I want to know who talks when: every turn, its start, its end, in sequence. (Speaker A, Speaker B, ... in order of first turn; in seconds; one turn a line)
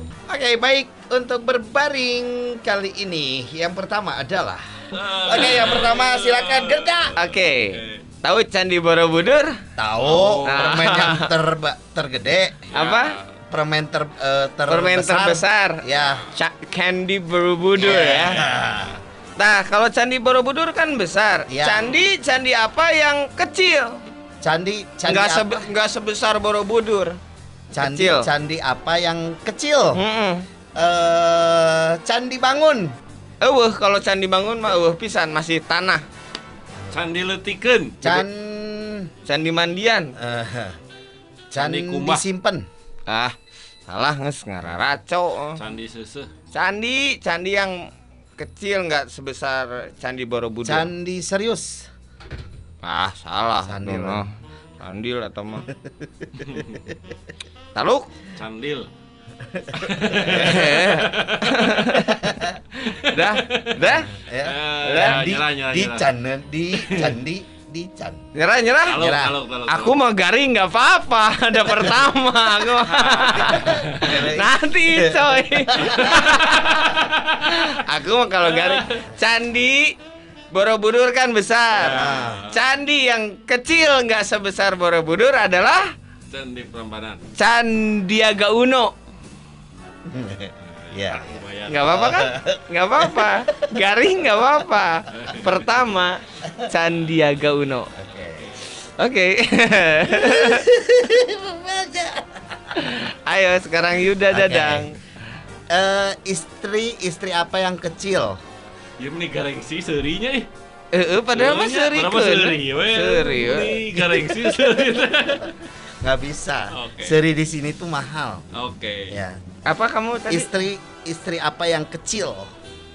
Speaker A: 0.3-7.2
Speaker B: 4.9-8.0
Speaker C: 7.1-9.6
Speaker A: 9.8-12.7
Speaker B: 10.0-10.7
Speaker C: 10.4-11.3
Speaker B: 12.7-13.3
Speaker C: 12.7-13.2
Speaker A: 13.5-16.3
Speaker C: 14.7-18.4
Speaker A: 17.7-19.0
Speaker C: 19.4-24.0
Speaker A: 21.5-21.9
Speaker A: 24.4-25.7
Speaker C: 25.1-27.1
Speaker A: 27.7-30.0
Speaker C: 27.8-28.3
Speaker C: 29.9-30.5
Speaker A: 30.8-32.9
Speaker C: 33.4-36.0
Speaker B: 36.9-38.0
Speaker A: 38.0-39.1
Speaker C: 39.2-40.1
Speaker A: 40.2-40.8
Speaker A: 41.5-42.7
Speaker B: 41.5-42.2
Speaker C: 43.1-43.3
Speaker C: 43.9-45.6
Speaker B: 45.5-46.3
Speaker C: 46.5-47.7
Speaker C: 48.4-50.9
Speaker A: 50.6-51.9
Speaker C: 52.8-55.7
Speaker A: 53.6-54.2
Speaker B: 56.4-56.8
Speaker C: 57.7-58.1
Speaker B: 58.4-58.9
Speaker A: 59.6-60.8
Speaker B: 59.8-61.7
Speaker C: 60.3-62.3
Speaker A: 61.9-62.5
Speaker C: 62.8-64.2
Speaker B: 62.8-66.1
Speaker A: 64.1-68.2
Speaker C: 64.8-65.2
Speaker B: 66.7-67.2
Speaker C: 68.3-69.0
Speaker B: 68.9-70.0
Speaker A: 69.0-69.3
Speaker C: 69.7-79.9
Speaker B: 72.9-74.3
Speaker A: 73.4-76.2
Speaker B: 75.8-77.4
Speaker B: 78.4-79.0
Speaker C: 80.5-85.9
Speaker B: 81.8-82.5
Speaker A: 81.8-82.4
Speaker B: 86.3-87.2
Speaker C: 87.3-88.9
Speaker A: 90.1-93.5
Speaker B: 90.7-92.1
Speaker C: 91.7-97.9
Speaker B: 95.1-95.7
Speaker A: 98.0-98.5
Speaker C: 98.8-100.7
Speaker A: 100.0-102.6
Speaker C: 102.8-105.0
Speaker A: 104.3-104.9
Speaker A: 105.7-108.4
Speaker B: 109.0-110.5
Speaker C: 110.9-114.2
Speaker B: 111.3-115.7
Speaker A: 116.0-118.4
Speaker B: 116.7-117.2
Speaker B: 118.5-119.2
Speaker A: 119.1-119.4
Speaker C: 119.7-120.5
Speaker A: 120.3-122.5